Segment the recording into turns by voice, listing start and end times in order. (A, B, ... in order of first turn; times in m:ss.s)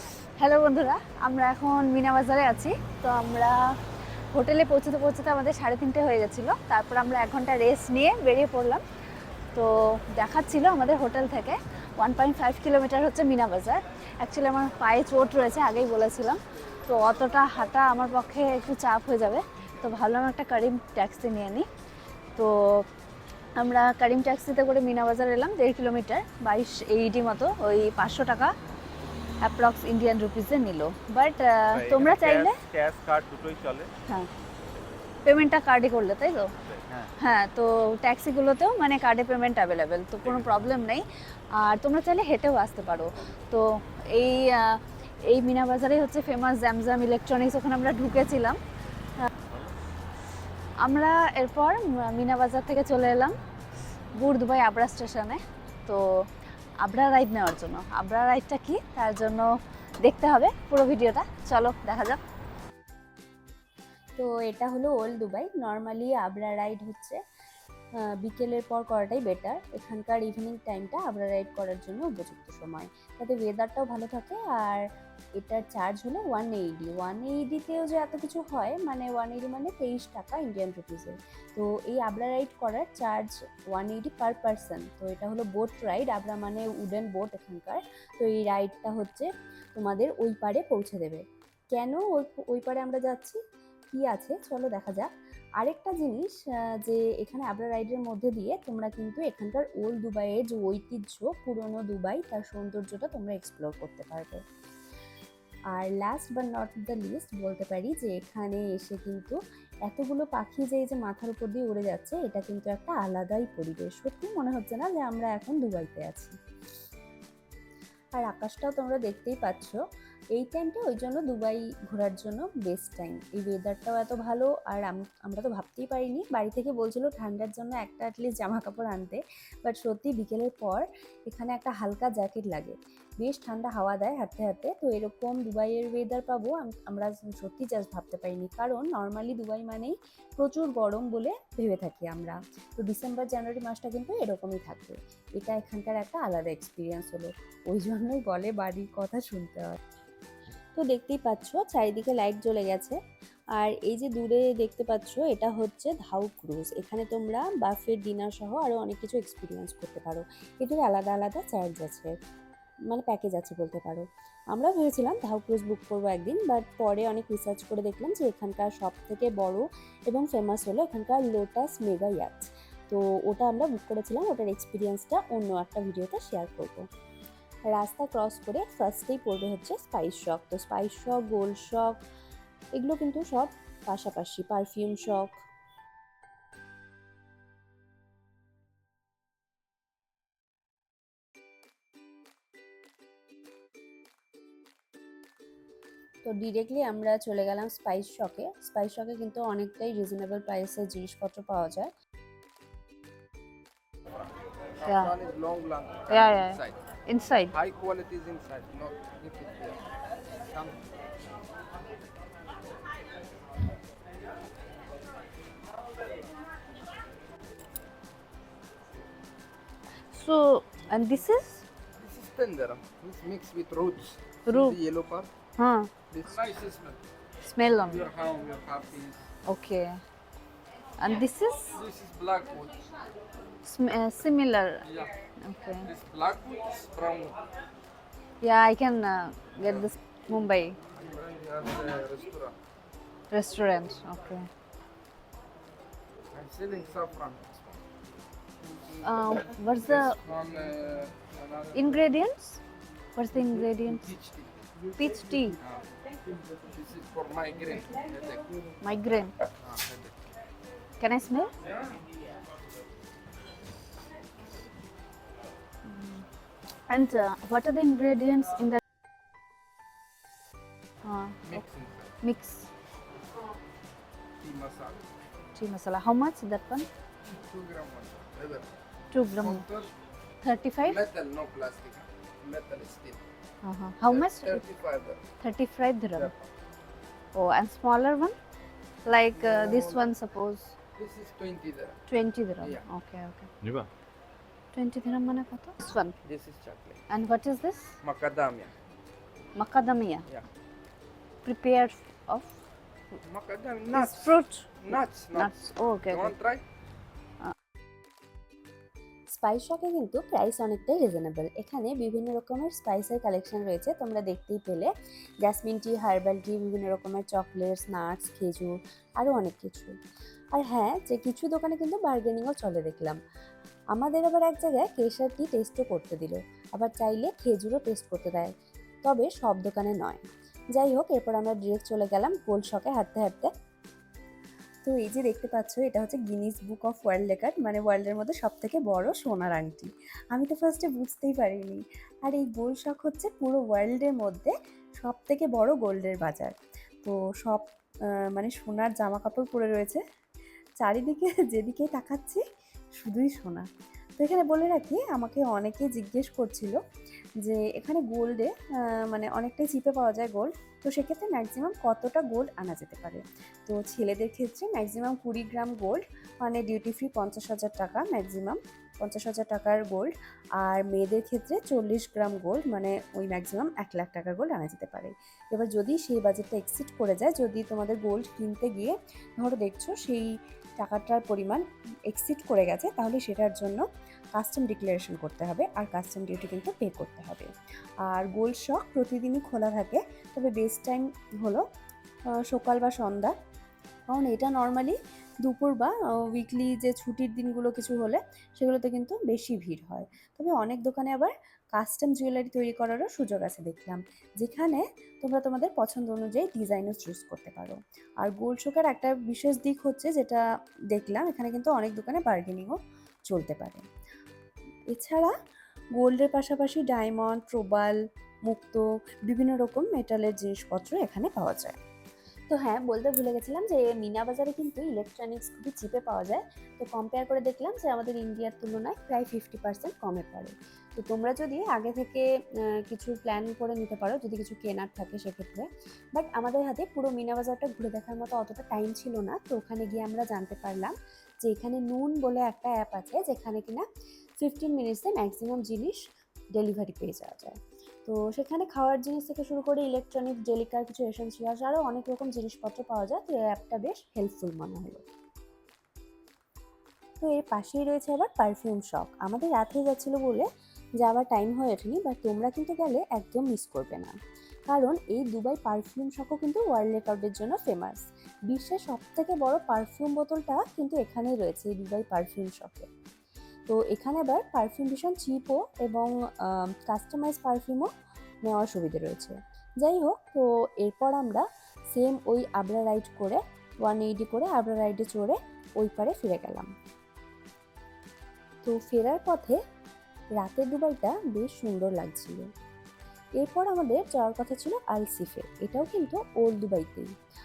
0:00.4-0:03.6 A
0:04.3-0:08.8 A
0:09.5-0:21.7 A
0:22.4-0:22.9 A
0:23.6-0:28.5 A
0:29.4-0:32.6 A
0:31.7-0:33.9 B
0:35.2-0:36.5 A
0:36.6-0:37.1 B
0:37.2-0:48.6 A
0:40.2-0:40.8 B
0:49.5-0:49.7 B
0:50.8-0:53.4 A
0:54.2-0:56.0 A
0:56.8-0:59.5 A
1:00.0-1:02.2 A
1:04.2-1:07.2 C
1:08.2-1:14.8 C
1:15.4-1:31.2 C
1:31.7-1:33.4 C
1:33.9-1:36.3 C
1:36.8-1:44.4 C
1:45.7-1:56.4 C
1:58.2-1:59.8 C
2:00.4-2:29.8 C
2:30.8-2:33.0 C
2:33.6-2:42.1 C
2:42.9-2:56.9 C
2:57.7-3:02.0 C
3:02.8-3:05.4 C
3:16.2-3:21.9 C
3:24.8-3:26.8 D
3:24.8-3:25.2 A
3:26.1-3:27.6 A
3:27.5-3:29.8 D
3:40.1-3:41.6 A
3:42.0-3:45.3 D
3:44.5-3:44.8 A
3:45.6-3:45.9 A
3:46.1-3:47.0 D
3:47.4-3:48.1 A
3:47.8-3:49.3 D
3:49.4-3:50.0 A
3:51.0-3:51.8 A
3:51.7-3:52.8 D
3:53.6-3:54.9 A
3:55.4-3:55.9 A
3:55.8-3:57.4 D
3:58.4-4:00.8 A
3:59.6-3:59.9 D
4:00.9-4:02.6 D
4:03.3-4:04.5 A
4:06.3-4:07.8 D
4:09.0-4:10.2 A
4:09.8-4:12.0 D
4:11.7-4:12.6 A
4:13.2-4:14.1 A
4:14.0-4:14.6 D
4:15.0-4:15.6 A
4:15.6-4:15.9 D
4:16.7-4:18.5 D
4:18.8-4:19.4 A
4:19.6-4:20.2 D
4:21.0-4:21.5 A
4:25.8-4:26.2 A
4:26.9-4:28.8 A
4:31.0-4:31.6 A
4:31.4-4:32.2 D
4:32.2-4:32.7 A
4:34.4-4:35.0 D
4:35.6-4:36.9 A
4:37.3-4:38.7 D
4:39.1-4:39.6 A
4:39.4-4:39.9 D
4:40.4-4:41.0 A
4:40.8-4:43.2 D
4:43.6-4:44.6 A
4:44.0-4:45.2 D
4:45.4-4:46.3 A
4:46.1-4:46.5 D
4:47.4-4:48.4 A
4:49.0-4:50.8 A
4:49.4-4:50.1 D
4:51.0-4:52.0 D
4:52.1-4:53.5 A
4:52.6-4:52.8 D
4:53.6-4:53.9 B
4:54.7-4:56.2 A
4:56.2-4:57.0 D
4:57.1-4:57.9 A
4:58.0-4:58.7 D
4:59.6-5:00.3 A
5:01.4-5:02.6 A
5:03.2-5:06.6 D
5:03.9-5:06.3 A
5:09.3-5:14.9 C
5:15.4-5:20.0 C
5:20.5-5:23.2 C
5:23.9-5:28.5 C
5:29.0-5:30.2 C
5:30.7-5:33.5 C
5:34.8-5:47.6 C
5:48.3-5:50.0 C
5:50.8-5:52.4 C
5:53.0-5:53.7 C
5:54.2-5:56.8 C
5:57.4-6:23.8 C
6:24.4-6:27.5 C
6:28.1-6:31.6 C
6:32.5-6:33.3 C
6:34.1-6:52.8 C
6:53.3-6:53.8 C
6:54.9-6:55.3 C
6:56.0-6:58.0 C
6:58.5-7:01.8 C
7:02.5-7:12.2 C
7:12.8-7:23.8 C
7:24.4-7:26.0 C
7:26.6-7:35.0 C
7:37.2-7:40.5 C
7:41.0-7:44.1 C
7:44.7-7:52.9 C
7:53.7-7:57.9 C
7:58.5-8:06.7 C
8:08.6-8:09.6 C
8:10.4-8:12.4 C
8:13.4-8:17.1 C